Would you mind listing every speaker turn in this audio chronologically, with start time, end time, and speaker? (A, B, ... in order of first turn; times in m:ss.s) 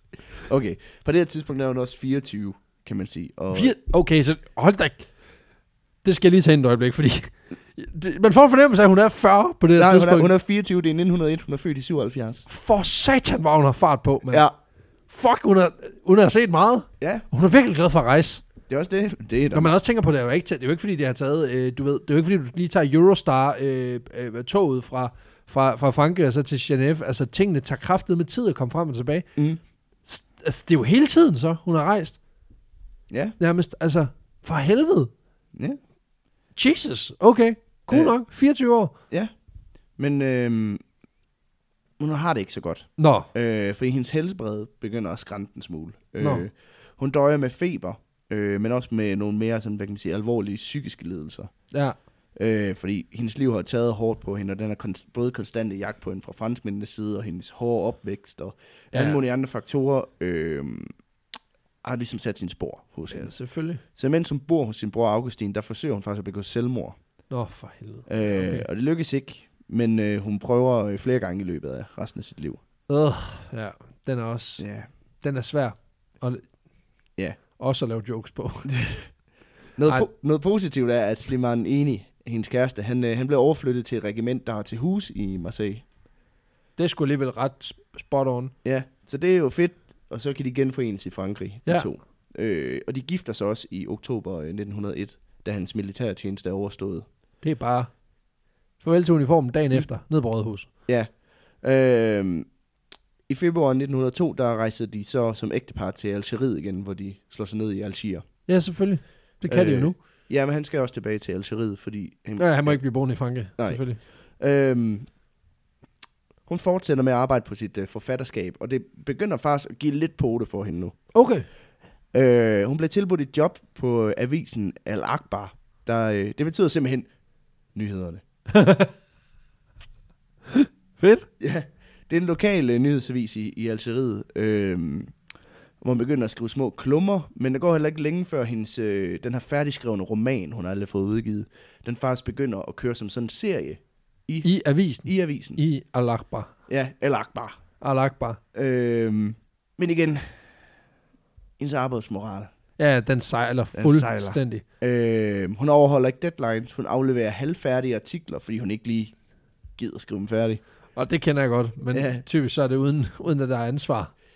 0:00.4-0:03.7 A
0:03.5-0:05.1 B
0:06.0-0:10.3 B
0:09.8-0:12.4 A
0:12.5-0:14.5 B
0:15.1-0:18.4 B
0:17.0-0:17.3 A
0:18.7-0:19.7 A
0:19.5-0:29.3 B
0:29.4-0:29.6 A
0:30.0-0:32.2 B
0:33.1-0:33.4 A
0:33.4-0:35.1 B
0:36.6-0:38.9 B
0:37.9-0:38.2 A
0:40.0-0:40.8 A
0:42.0-0:51.5 A
0:43.0-0:43.3 B
0:46.2-0:46.4 B
0:51.7-0:52.0 B
0:52.4-1:00.9 A
0:58.9-0:59.2 B
1:01.8-1:07.0 A
1:03.1-1:03.8 B
1:07.3-1:08.7 B
1:08.1-1:12.6 A
1:12.9-1:14.7 B
1:14.6-1:14.9 A
1:15.2-1:16.5 B
1:17.6-1:18.7 B
1:18.7-1:19.1 A
1:19.8-1:25.8 A
1:26.8-1:28.5 B
1:28.6-1:37.1 A
1:37.4-1:38.0 B
1:38.8-1:40.7 B
1:40.9-1:42.5 A
1:43.3-1:48.2 A
1:48.5-1:50.0 B
1:49.5-1:55.2 A
1:52.4-1:54.0 B
1:56.5-2:01.0 A
2:01.1-2:01.5 B
2:02.1-2:07.1 A
2:07.7-2:08.2 A
2:08.5-2:08.9 B
2:10.6-2:11.3 B
2:11.4-2:15.2 A
2:15.8-2:24.5 A
2:24.4-2:26.5 B
2:25.0-2:25.6 A
2:26.7-2:27.6 A
2:27.8-2:28.4 B
2:28.5-2:30.4 A
2:31.6-2:32.5 A
2:32.8-2:34.6 B
2:33.7-2:39.2 A
2:39.8-2:40.6 A
2:41.0-2:44.1 B
2:41.9-2:42.2 A